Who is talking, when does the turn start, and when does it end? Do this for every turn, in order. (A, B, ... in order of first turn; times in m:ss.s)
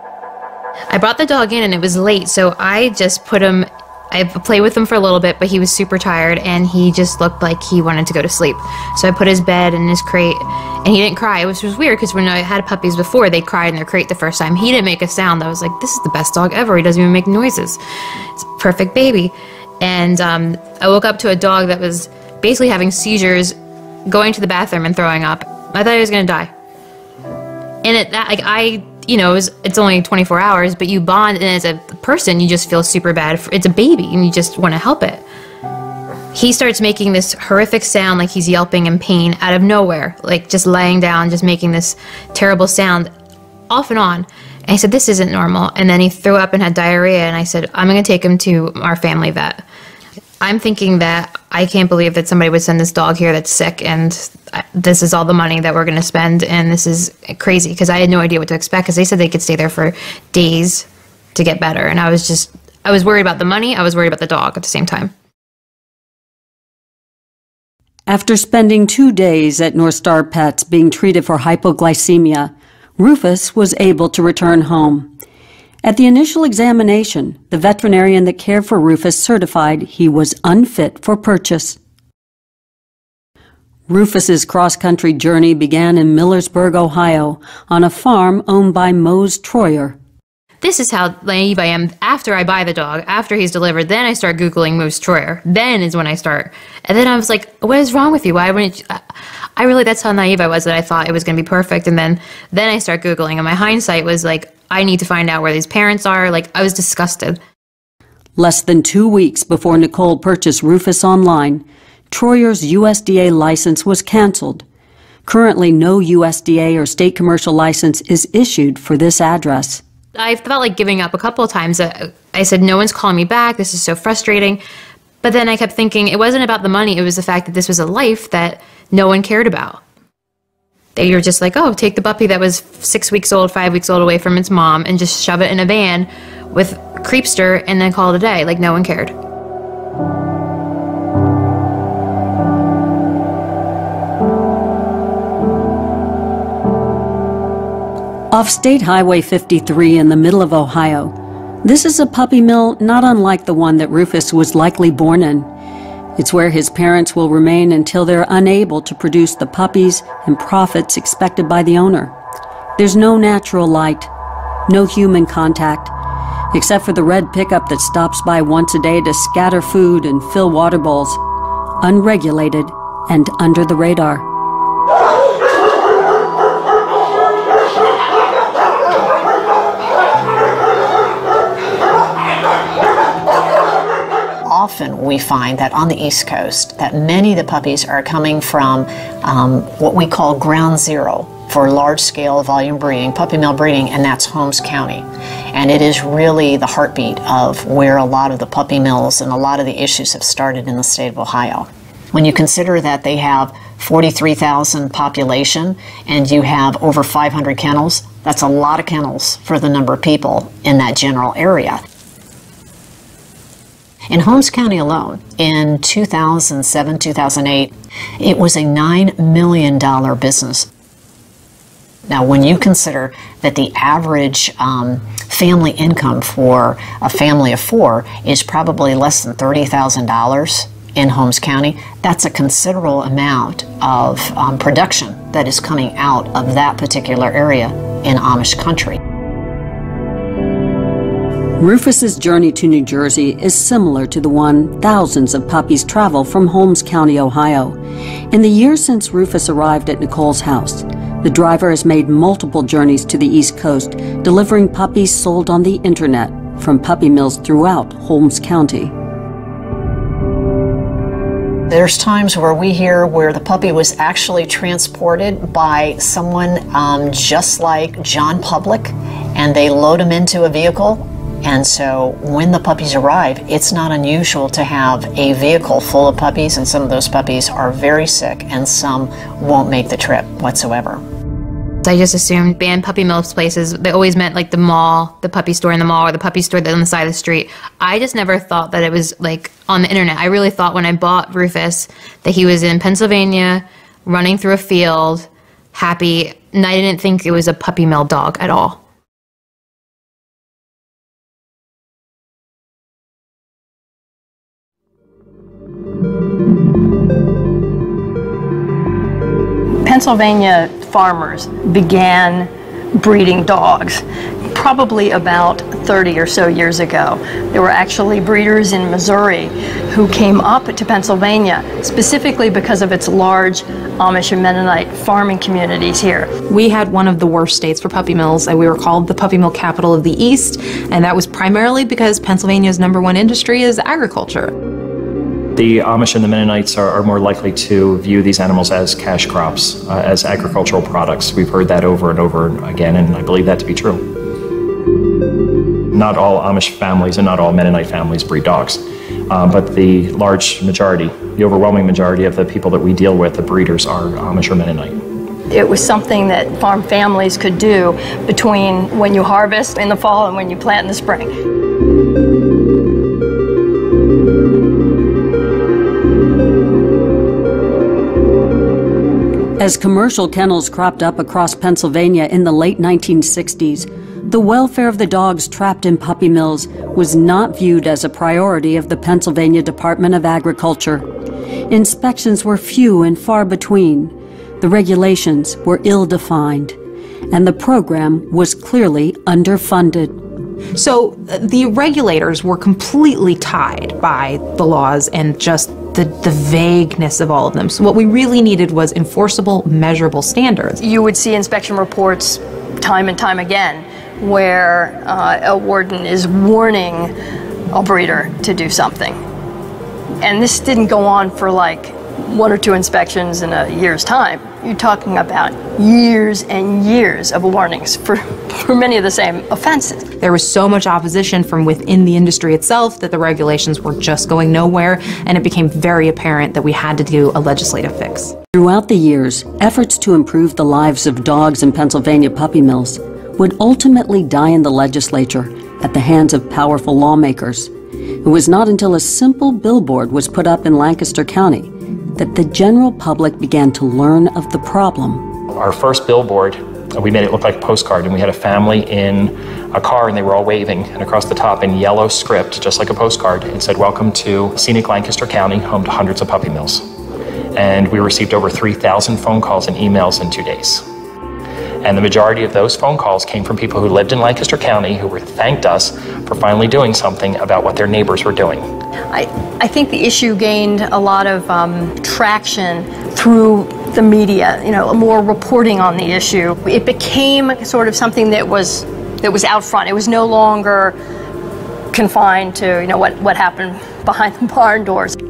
0:00.9-0:17.8 A
0:18.4-0:23.5 A
0:24.0-0:26.5 A
0:27.8-0:35.2 A
0:36.3-0:43.1 A
0:43.7-0:49.6 A
0:50.4-1:05.1 A
1:08.1-1:15.1 B
1:15.8-1:21.8 B
1:23.9-1:30.0 B
1:30.6-1:39.0 A
1:39.6-1:47.4 A
1:48.4-1:54.6 B
1:55.2-1:59.8 B
2:00.2-2:04.6 A
2:05.2-2:09.8 A
2:11.0-2:19.1 A
2:28.3-2:35.5 B
2:36.2-2:42.1 B
2:42.8-2:44.1 B
2:44.7-2:45.9 B
2:46.5-2:51.2 B
2:51.8-2:54.3 B
3:04.4-3:31.8 C
3:34.1-3:40.7 C
3:42.1-3:59.0 C
4:01.6-4:07.8 B
4:08.3-4:18.9 B
4:21.7-4:41.0 C
4:41.8-4:58.8 A
5:09.8-5:26.3 D
5:26.5-5:34.5 E
5:35.5-5:44.0 F
5:45.9-5:55.0 F
5:55.5-6:01.3 D
6:09.6-6:21.0 B
6:21.7-6:26.8 B
6:27.3-6:30.2 B
6:30.7-6:40.8 E
6:40.8-6:47.1 D
6:47.7-6:49.2 D
6:50.2-7:00.0 D
7:00.2-7:08.3 E
7:08.5-7:17.7 B
7:18.2-7:25.3 B
7:25.5-7:36.9 F
7:37.5-7:40.8 F
7:41.8-7:48.7 F
7:49.1-8:00.9 D
8:01.9-8:05.1 D